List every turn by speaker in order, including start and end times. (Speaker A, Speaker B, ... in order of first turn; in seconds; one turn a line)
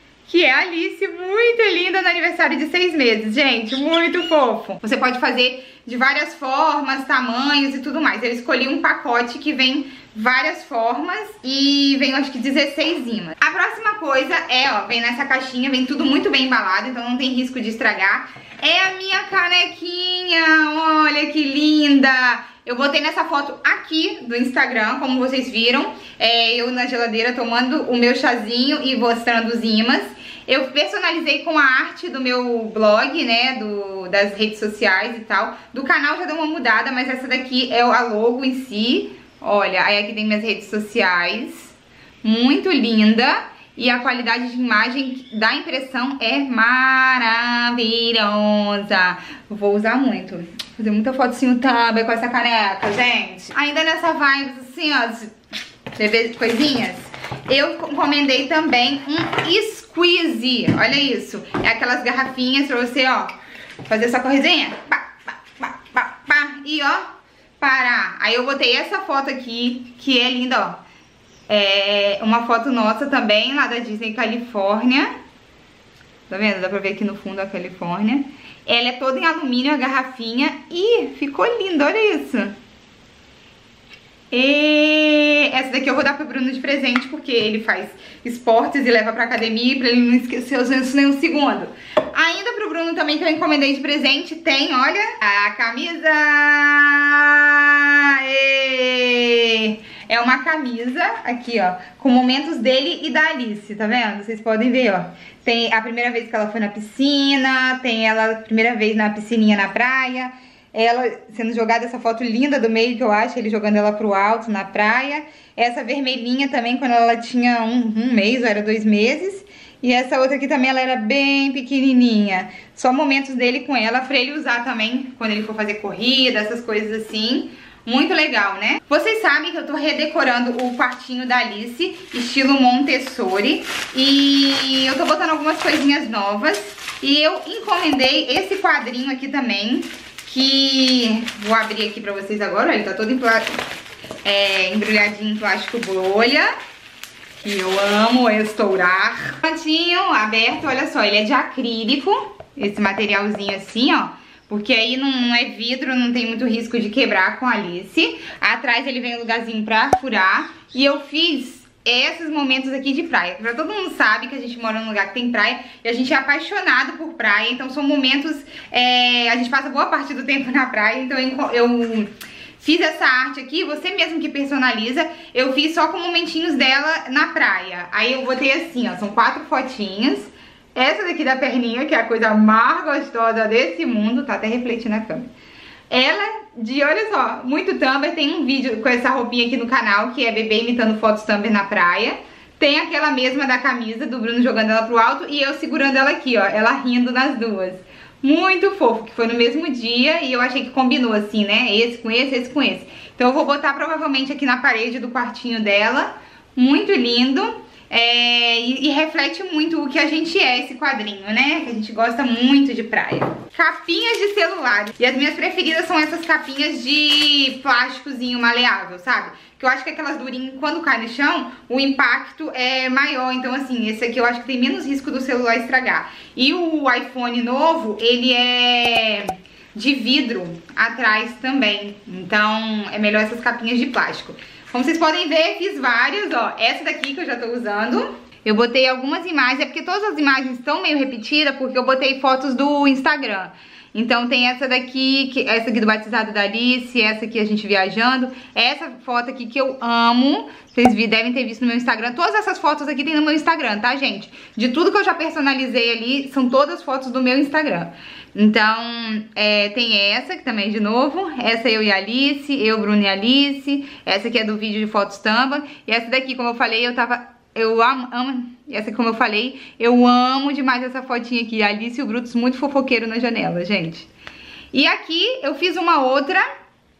Speaker A: 0.2-55.3
Speaker A: 55.9-63.3
Speaker A: 63.9-70.8
Speaker A: 71.5-75.1
Speaker A: 76.3-82.5
Speaker A: 84.3-143.6
Speaker A: 144.2-146.5
Speaker A: 147.4-185.3
Speaker A: 185.9-274.1
Speaker A: 274.7-276.4